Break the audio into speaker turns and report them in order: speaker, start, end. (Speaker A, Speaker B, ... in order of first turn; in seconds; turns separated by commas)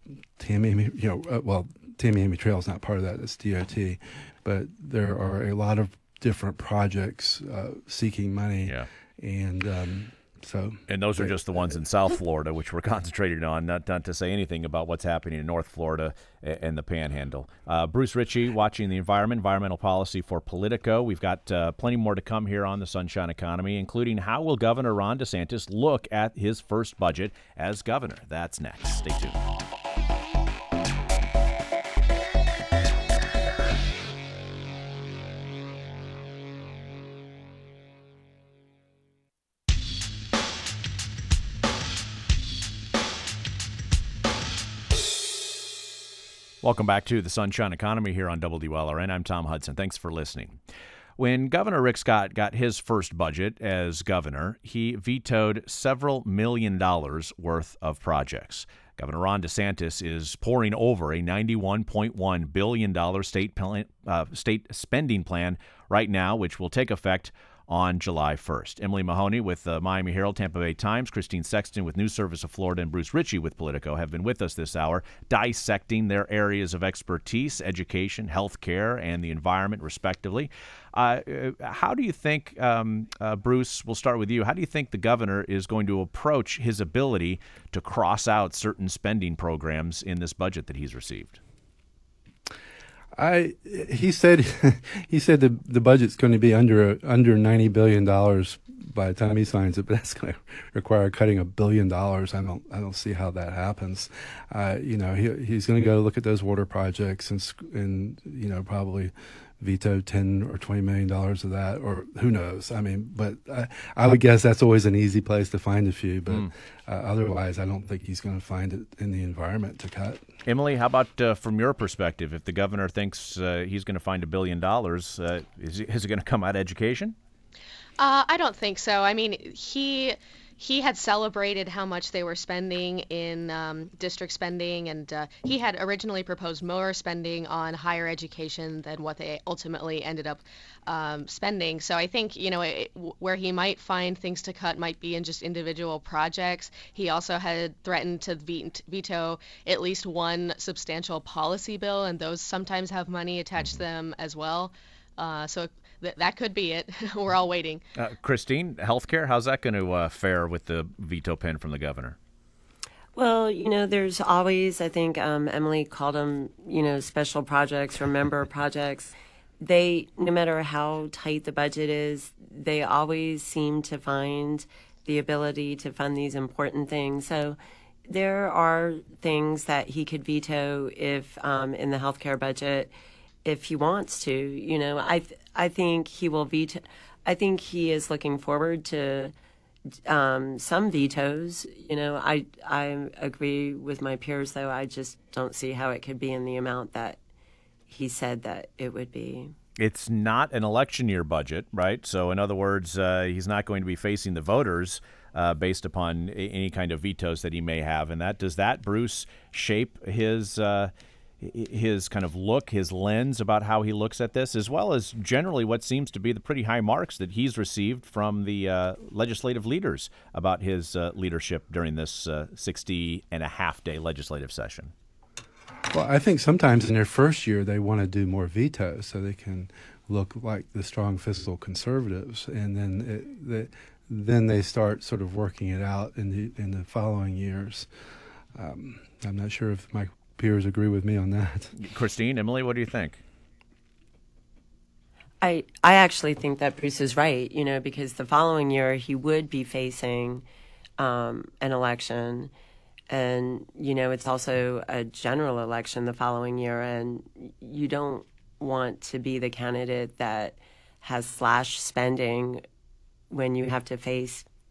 Speaker A: 0.4-11.3, Speaker B: 10.9-29.4, Speaker B: 46.6-50.6, Speaker B: 51.2-91.4, Speaker A: 93.2-120.2, Speaker B: 120.5-127.2, Speaker C: 128.0-157.8, Speaker B: 157.9-162.2, Speaker D: 163.1-177.6, Speaker D: 178.1-182.9, Speaker D: 183.4-189.3, Speaker D: 190.1-197.2, Speaker D: 197.9-199.5, Speaker B: 199.8-224.9, Speaker A: 225.9-237.9, Speaker A: 238.5-241.7, Speaker B: 241.8-243.2, Speaker D: 245.4-250.4, Speaker D: 251.0-252.5, Speaker D: 253.1-262.6, Speaker D: 263.3-264.4